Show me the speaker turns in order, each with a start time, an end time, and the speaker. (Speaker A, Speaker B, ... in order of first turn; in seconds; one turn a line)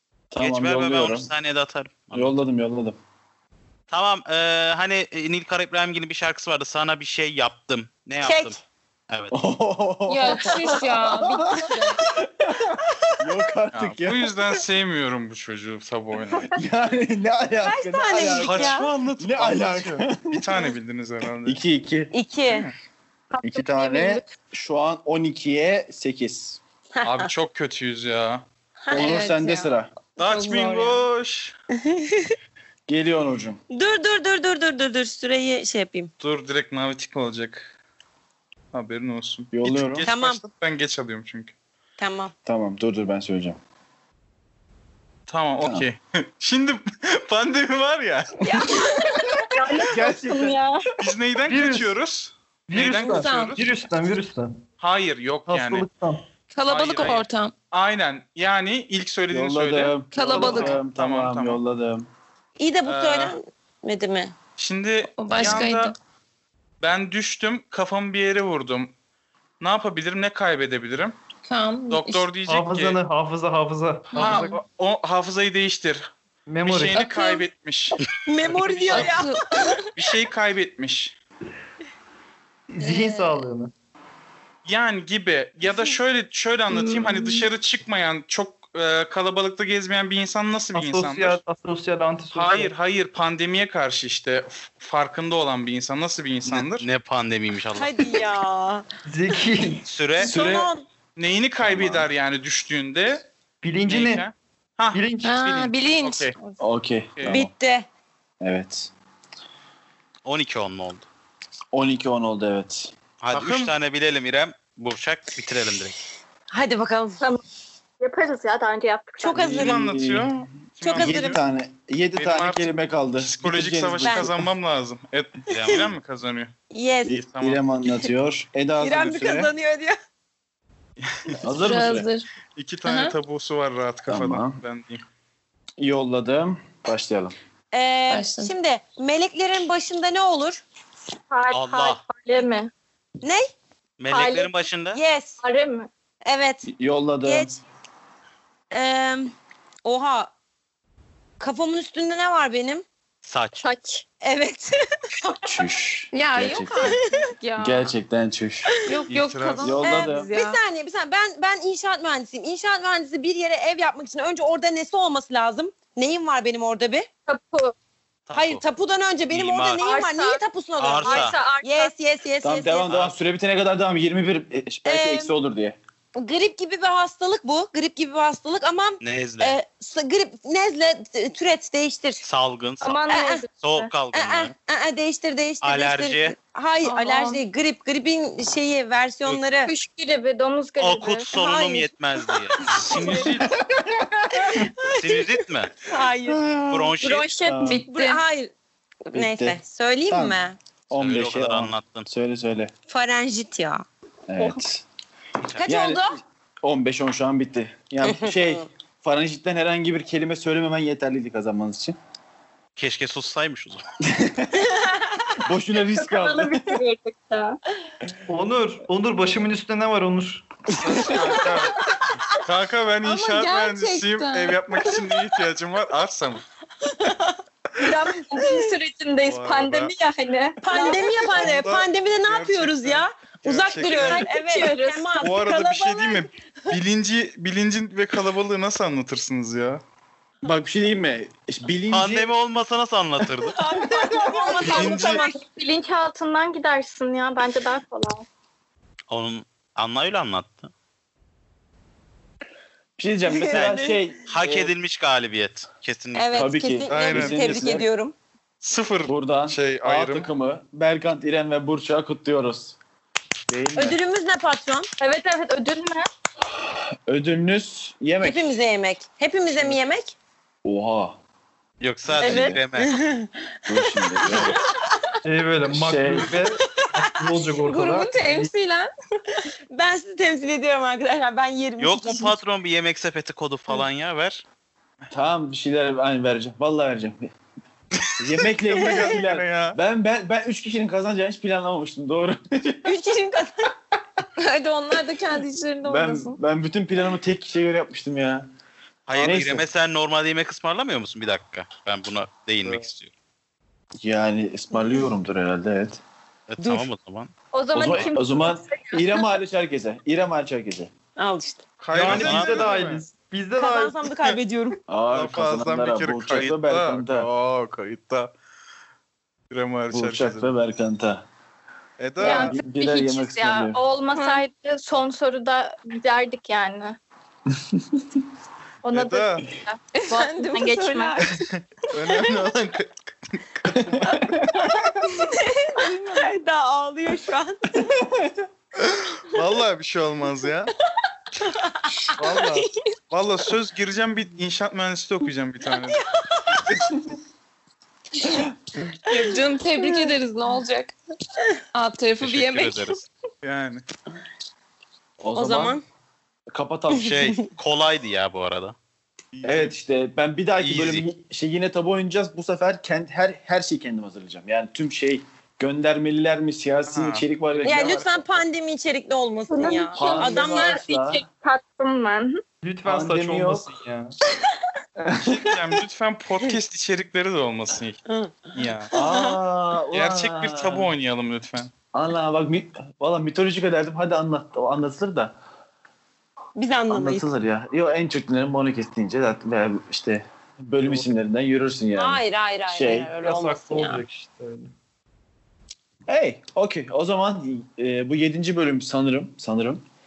Speaker A: 0.3-1.3
Speaker B: 0.4-2.3
Speaker A: 2.1-3.0
Speaker B: 3.9-8.6
Speaker C: 8.2-8.6
Speaker B: 9.1-9.4
Speaker A: 9.3-14.6
Speaker D: 10.1-12.0
Speaker E: 13.7-16.5
Speaker A: 16.5-20.6
Speaker C: 17.6-18.9
Speaker E: 18.4-21.6
Speaker A: 21.4-22.1
Speaker C: 22.1-22.7
Speaker E: 22.5-22.7
Speaker F: 23.3-24.3
Speaker A: 23.4-26.6
Speaker C: 26.9-27.3
Speaker E: 27.0-28.4
Speaker C: 28.8-29.2
Speaker A: 28.9-29.9
Speaker D: 28.9-31.0
Speaker E: 30.2-31.6
Speaker C: 31.8-32.4
Speaker A: 32.9-33.6
Speaker C: 33.7-36.1
Speaker E: 36.2-37.7
Speaker E: 38.7-41.5
Speaker A: 39.5-40.1
Speaker C: 40.0-40.4
Speaker C: 42.0-42.3
Speaker A: 42.4-43.6
Speaker E: 45.3-48.7
Speaker A: 45.6-45.9
Speaker C: 48.4-49.3
Speaker F: 49.4-50.8
Speaker A: 49.8-50.6
Speaker E: 51.0-53.7
Speaker G: 51.5-52.0
Speaker G: 52.7-54.6
Speaker D: 53.1-53.6
Speaker E: 54.8-55.9
Speaker G: 55.5-56.3
Speaker D: 56.5-57.5
Speaker E: 56.6-61.6
Speaker A: 59.3-62.1
Speaker D: 60.1-60.8
Speaker C: 62.6-64.3
Speaker E: 62.9-63.4
Speaker E: 64.6-65.9
Speaker D: 65.1-66.0
Speaker A: 65.3-65.6
Speaker E: 66.8-68.9
Speaker E: 69.6-71.2
Speaker D: 71.5-72.2
Speaker E: 71.9-73.0
Speaker G: 72.5-74.6
Speaker E: 74.1-76.1
Speaker G: 76.5-77.1
Speaker E: 76.7-79.2
Speaker C: 78.2-79.7
Speaker D: 78.9-79.9
Speaker E: 80.0-81.2
Speaker G: 82.7-83.7
Speaker E: 84.6-91.4
Speaker F: 87.0-87.3
Speaker G: 90.8-92.7
Speaker E: 92.3-96.9
Speaker B: 96.5-98.2
Speaker C: 97.8-98.8
Speaker G: 99.1-99.8
Speaker B: 99.8-100.4
Speaker A: 100.2-100.7
Speaker C: 100.2-100.9
Speaker E: 101.2-103.3
Speaker A: 101.6-102.1
Speaker G: 103.6-104.3
Speaker E: 103.9-106.3
Speaker G: 104.9-105.5
Speaker D: 105.2-106.6
Speaker A: 106.6-107.5
Speaker C: 107.3-107.9
Speaker A: 108.4-108.9
Speaker B: 110.2-111.1
Speaker A: 111.7-112.9
Speaker B: 113.2-116.0
Speaker E: 113.3-113.7
Speaker C: 116.5-117.2
Speaker F: 118.0-119.6
Speaker C: 119.2-119.8
Speaker A: 119.3-120.3
Speaker E: 119.6-121.4
Speaker C: 120.8-121.4
Speaker A: 120.9-124.4
Speaker E: 122.2-126.5
Speaker C: 124.0-124.3
Speaker B: 125.5-125.9
Speaker C: 126.7-127.2
Speaker A: 127.1-129.5
Speaker E: 127.3-127.6
Speaker C: 128.8-130.0
Speaker E: 131.0-131.4
Speaker A: 131.4-132.1
Speaker D: 131.6-132.3
Speaker E: 132.6-135.0
Speaker D: 132.8-133.1
Speaker A: 134.1-134.6
Speaker A: 135.8-137.3
Speaker C: 137.7-140.6
Speaker D: 138.1-138.5
Speaker F: 141.3-142.7
Speaker B: 141.5-142.0
Speaker C: 143.2-143.5
Speaker B: 144.0-145.0
Speaker F: 144.1-144.5
Speaker C: 144.9-145.4
Speaker F: 145.4-145.9
Speaker C: 146.2-146.7
Speaker A: 146.7-147.5
Speaker C: 147.2-147.6
Speaker C: 148.7-149.3
Speaker C: 149.8-150.3
Speaker C: 151.4-152.8
Speaker B: 153.2-153.6
Speaker F: 153.6-154.1
Speaker C: 154.2-155.3
Speaker A: 155.4-157.0
Speaker D: 156.1-157.9
Speaker C: 156.8-157.3
Speaker A: 157.6-158.7
Speaker D: 158.9-160.6
Speaker E: 159.1-159.8
Speaker A: 159.6-160.3
Speaker C: 159.8-167.1
Speaker F: 167.3-167.7
Speaker B: 168.3-168.6
Speaker C: 168.3-173.0
Speaker B: 169.3-169.8
Speaker F: 169.8-170.4
Speaker B: 170.8-171.4
Speaker F: 171.0-171.9
Speaker A: 172.4-175.8
Speaker C: 174.9-175.3
Speaker C: 176.1-182.2
Speaker B: 179.0-179.6
Speaker B: 182.2-184.5
Speaker F: 182.8-183.9
Speaker C: 183.1-183.4
Speaker C: 184.1-189.7
Speaker B: 185.6-186.4
Speaker D: 186.8-187.4
Speaker F: 189.7-191.9
Speaker B: 190.8-192.8
Speaker C: 191.4-191.8
Speaker E: 192.7-193.5
Speaker A: 192.9-194.7
Speaker C: 194.5-195.3
Speaker B: 195.0-195.7
Speaker C: 195.9-196.5
Speaker A: 196.3-196.9
Speaker B: 196.7-197.3
Speaker F: 197.0-197.7
Speaker A: 197.4-197.8
Speaker D: 197.6-198.2
Speaker C: 197.7-198.5
Speaker C: 199.1-200.6
Speaker A: 199.1-202.7
Speaker B: 200.9-202.1
Speaker C: 202.9-203.8
Speaker A: 204.3-204.8
Speaker C: 205.6-206.2
Speaker A: 205.6-206.1
Speaker A: 206.6-211.9
Speaker C: 208.0-208.7
Speaker B: 212.8-213.8
Speaker A: 214.0-214.6
Speaker C: 214.7-215.3
Speaker A: 215.4-216.8
Speaker F: 215.9-217.6
Speaker G: 218.3-220.5
Speaker E: 220.8-221.8
Speaker C: 220.9-221.7
Speaker E: 222.4-226.4
Speaker D: 223.0-225.1
Speaker C: 227.0-228.6
Speaker F: 227.8-231.6
Speaker E: 229.2-229.9
Speaker C: 230.6-236.7
Speaker E: 231.3-234.3
Speaker F: 233.9-235.3
Speaker E: 235.2-239.8
Speaker A: 240.4-242.3
Speaker B: 241.9-243.6
Speaker C: 243.6-245.4
Speaker F: 244.6-248.2
Speaker E: 244.6-245.3
Speaker B: 249.1-250.7
Speaker A: 253.0-254.7
Speaker C: 253.4-254.0
Speaker B: 253.5-256.6
Speaker C: 256.1-258.1
Speaker A: 256.3-257.9
Speaker E: 256.9-257.5
Speaker E: 258.6-260.3
Speaker A: 259.1-262.8
Speaker A: 263.5-264.0
Speaker C: 263.8-264.9
Speaker F: 265.0-266.1
Speaker A: 267.1-268.6
Speaker C: 268.2-270.1
Speaker A: 270.6-271.2
Speaker B: 271.8-273.0
Speaker A: 272.1-272.6
Speaker C: 272.2-274.7
Speaker F: 272.2-272.5
Speaker A: 273.7-274.6
Speaker G: 275.2-278.5
Speaker A: 275.7-276.3
Speaker C: 276.8-277.4
Speaker D: 277.6-278.9
Speaker C: 279.7-282.4
Speaker B: 281.8-284.4
Speaker A: 285.1-287.3
Speaker A: 288.2-292.9
Speaker E: 288.7-289.8
Speaker C: 292.9-293.5
Speaker D: 294.4-296.4
Speaker A: 295.8-298.5
Speaker B: 299.1-303.1
Speaker A: 299.1-299.7
Speaker A: 304.0-306.0
Speaker C: 304.8-305.1
Speaker B: 306.5-307.3
Speaker C: 306.6-306.9
Speaker F: 307.5-309.3
Speaker A: 307.7-310.9
Speaker C: 311.2-311.8
Speaker E: 311.8-313.1
Speaker G: 311.9-314.1
Speaker B: 312.1-312.7
Speaker C: 313.6-314.8
Speaker A: 314.9-317.3
Speaker E: 315.1-318.3
Speaker E: 319.5-320.5
Speaker A: 319.9-321.3
Speaker E: 322.0-322.6
Speaker F: 322.2-327.0
Speaker A: 322.2-323.8
Speaker D: 324.1-324.4
Speaker A: 327.6-327.8
Speaker F: 328.8-331.2
Speaker E: 328.9-329.4
Speaker D: 329.9-331.4
Speaker C: 330.3-331.2
Speaker E: 331.9-334.3
Speaker A: 333.8-334.9
Speaker C: 335.2-338.0
Speaker D: 335.8-336.2
Speaker A: 338.0-338.4
Speaker E: 338.9-340.7
Speaker C: 341.6-342.6
Speaker E: 342.2-346.0
Speaker C: 345.8-346.8
Speaker D: 349.1-350.9
Speaker C: 349.1-350.2
Speaker D: 351.7-352.9
Speaker B: 352.2-353.0
Speaker E: 353.4-353.8
Speaker A: 355.2-355.8
Speaker C: 355.3-355.8
Speaker A: 356.5-357.2
Speaker B: 357.0-358.8
Speaker E: 359.4-359.7
Speaker A: 359.4-368.4
Speaker B: 360.6-361.1
Speaker E: 366.9-368.0
Speaker C: 367.6-370.8
Speaker F: 369.5-372.4
Speaker A: 369.9-371.2
Speaker G: 372.6-374.2
Speaker A: 372.9-373.7
Speaker A: 375.0-375.8
Speaker E: 375.2-378.0
Speaker C: 378.1-379.4
Speaker E: 378.6-378.9
Speaker A: 378.9-380.9
Speaker E: 379.9-381.7
Speaker A: 381.9-385.4
Speaker C: 386.6-387.3
Speaker A: 386.9-393.1
Speaker C: 391.9-393.6
Speaker G: 393.2-394.7
Speaker D: 393.6-394.0
Speaker A: 396.1-399.8